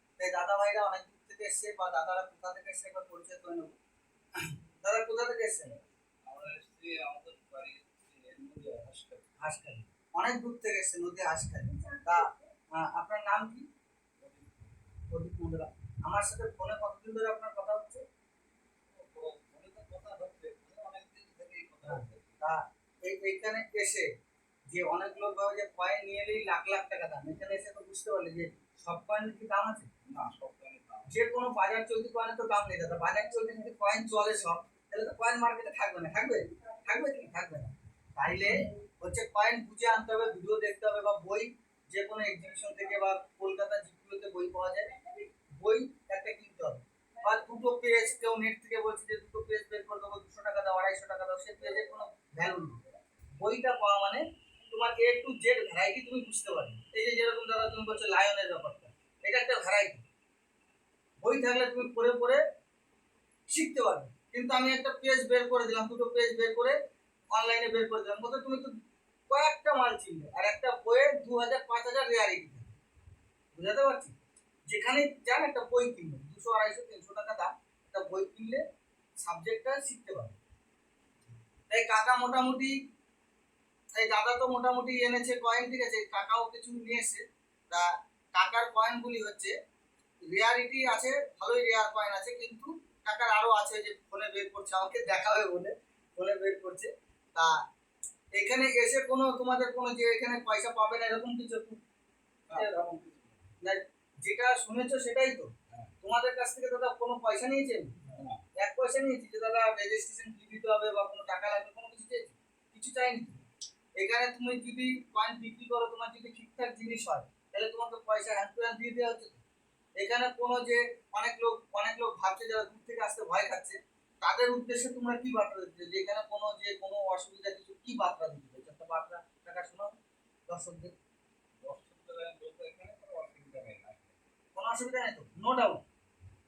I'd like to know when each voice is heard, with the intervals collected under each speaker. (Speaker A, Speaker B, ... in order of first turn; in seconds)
Speaker A: 0.2-3.8, 4.4-5.8, 9.4-13.7, 15.1-18.0, 21.9-24.1, 24.7-29.9, 31.1-45.0, 45.6-52.8, 53.4-60.0, 61.2-62.4, 63.5-66.8, 67.3-68.8, 69.3-72.7, 73.5-74.2, 74.7-78.6, 79.2-80.4, 81.7-82.8, 84.0-89.5, 90.3-97.5, 98.3-101.8, 102.5-102.9, 103.6-105.5, 106.0-108.0, 108.5-113.4, 114.0-119.4, 120.0-129.9, 130.5-130.9, 134.5-135.8
Speaker B: 6.2-9.4, 14.2-14.8, 18.9-22.4, 30.1-31.2, 102.5-103.4, 108.1-108.4, 131.6-134.2